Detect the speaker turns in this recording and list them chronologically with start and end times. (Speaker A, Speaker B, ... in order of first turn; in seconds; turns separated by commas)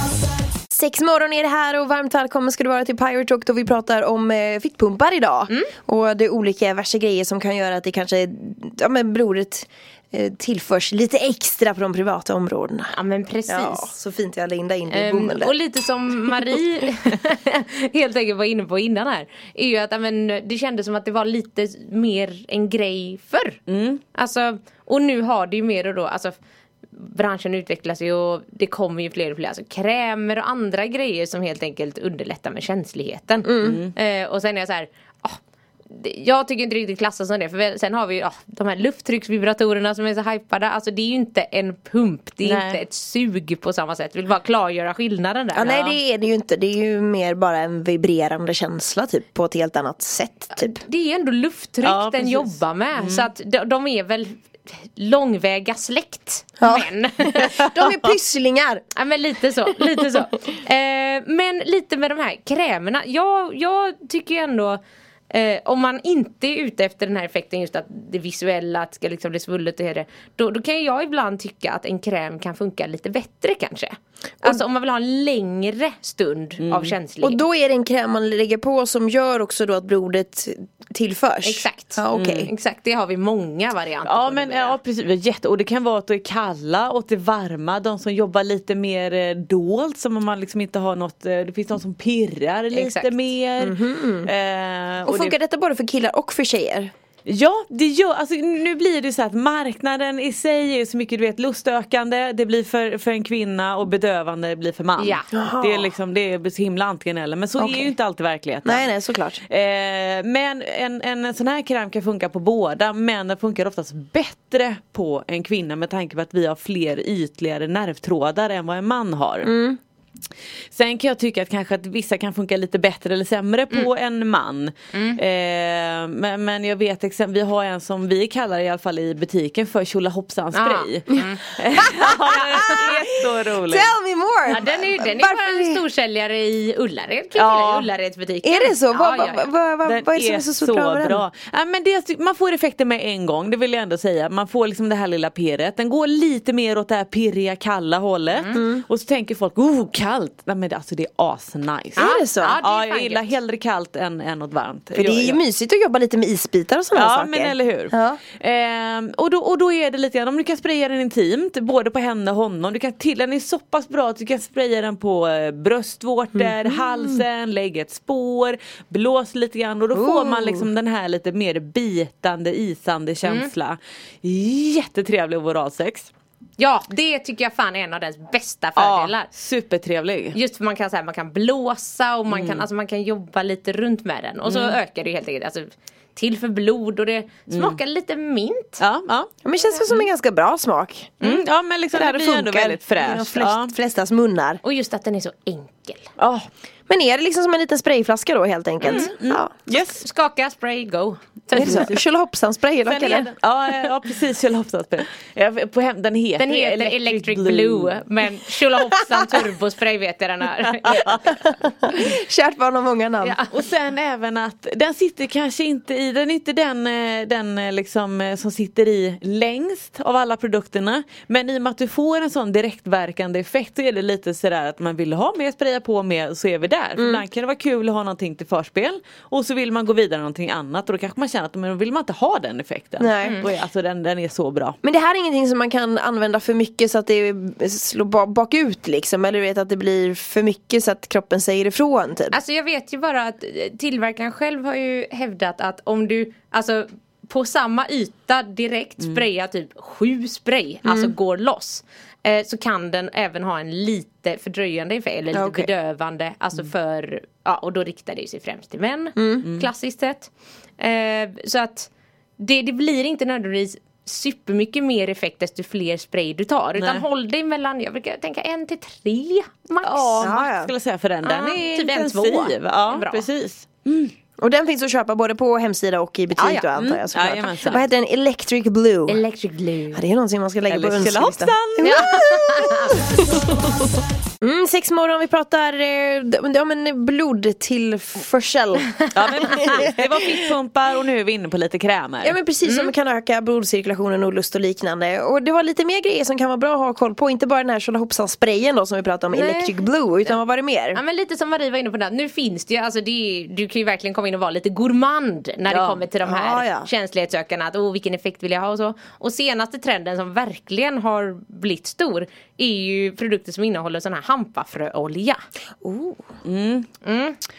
Speaker A: 0.7-12.9, Speaker B: 12.9-13.9, Speaker A: 13.5-15.5, Speaker B: 14.9-23.6, Speaker C: 23.7-24.0, Speaker B: 24.1-26.3, Speaker B: 26.9-35.4, Speaker A: 33.4-33.8, Speaker C: 33.6-33.9, Speaker B: 35.9-45.8, Speaker C: 42.4-42.8, Speaker A: 45.5-50.8, Speaker B: 50.5-57.6, Speaker C: 51.8-53.3, Speaker A: 56.6-58.8, Speaker B: 59.0-64.8, Speaker B: 65.3-77.4, Speaker C: 76.6-76.9, Speaker A: 77.2-82.5, Speaker B: 81.4-84.8, Speaker C: 82.1-82.5, Speaker C: 84.0-95.3, Speaker B: 92.7-93.2, Speaker A: 93.6-94.3, Speaker A: 95.1-96.9, Speaker C: 97.2-108.9, Speaker B: 105.0-105.2, Speaker A: 105.3-105.9, Speaker A: 107.6-107.9, Speaker A: 108.6-109.4, Speaker C: 109.5-119.5, Speaker A: 119.4-119.8, Speaker C: 120.7-133.9, Speaker B: 124.9-125.2, Speaker B: 130.5-131.6, Speaker A: 131.9-132.9, Speaker A: 133.5-135.8, Speaker B: 134.5-139.4, Speaker C: 134.5-134.8, Speaker C: 137.3-137.9, Speaker A: 138.4-141.2, Speaker C: 139.8-155.4, Speaker B: 148.3-148.6, Speaker A: 148.5-148.8, Speaker A: 151.9-152.6, Speaker B: 152.0-153.3, Speaker A: 155.0-158.2, Speaker C: 156.9-176.1, Speaker A: 166.3-167.2, Speaker A: 169.9-170.7, Speaker B: 173.2-173.5, Speaker B: 176.6-179.3, Speaker C: 178.8-180.4, Speaker B: 180.3-188.8, Speaker C: 182.3-182.7, Speaker C: 184.4-184.8, Speaker C: 187.5-187.8, Speaker C: 188.8-189.3, Speaker A: 189.4-191.2, Speaker C: 191.2-193.7, Speaker A: 191.9-194.6, Speaker B: 194.6-196.1, Speaker C: 196.2-196.4, Speaker A: 196.9-199.5, Speaker C: 198.8-200.0, Speaker B: 198.8-199.1, Speaker B: 200.0-201.9, Speaker A: 201.5-203.3, Speaker C: 201.6-201.8, Speaker C: 202.8-208.0, Speaker B: 206.4-211.2, Speaker C: 210.8-211.2, Speaker A: 211.2-213.4, Speaker C: 213.5-234.8, Speaker A: 226.9-227.2, Speaker A: 233.0-233.4, Speaker A: 234.8-242.4, Speaker B: 242.3-270.3, Speaker A: 250.8-251.1, Speaker A: 255.3-255.7, Speaker A: 259.1-259.4, Speaker C: 266.8-267.0, Speaker C: 269.8-274.1, Speaker A: 270.2-270.7, Speaker B: 271.2-273.2, Speaker A: 274.4-279.2, Speaker C: 276.5-277.9, Speaker B: 279.1-280.0, Speaker A: 279.9-283.5, Speaker C: 280.7-282.1, Speaker B: 281.8-283.2, Speaker A: 284.4-290.0, Speaker C: 289.1-292.3, Speaker A: 292.2-301.0, Speaker B: 292.6-292.9, Speaker B: 299.3-299.8, Speaker B: 300.9-315.4, Speaker C: 305.7-306.0, Speaker A: 306.2-306.9, Speaker A: 315.8-316.2, Speaker C: 316.4-316.9, Speaker B: 317.0-317.4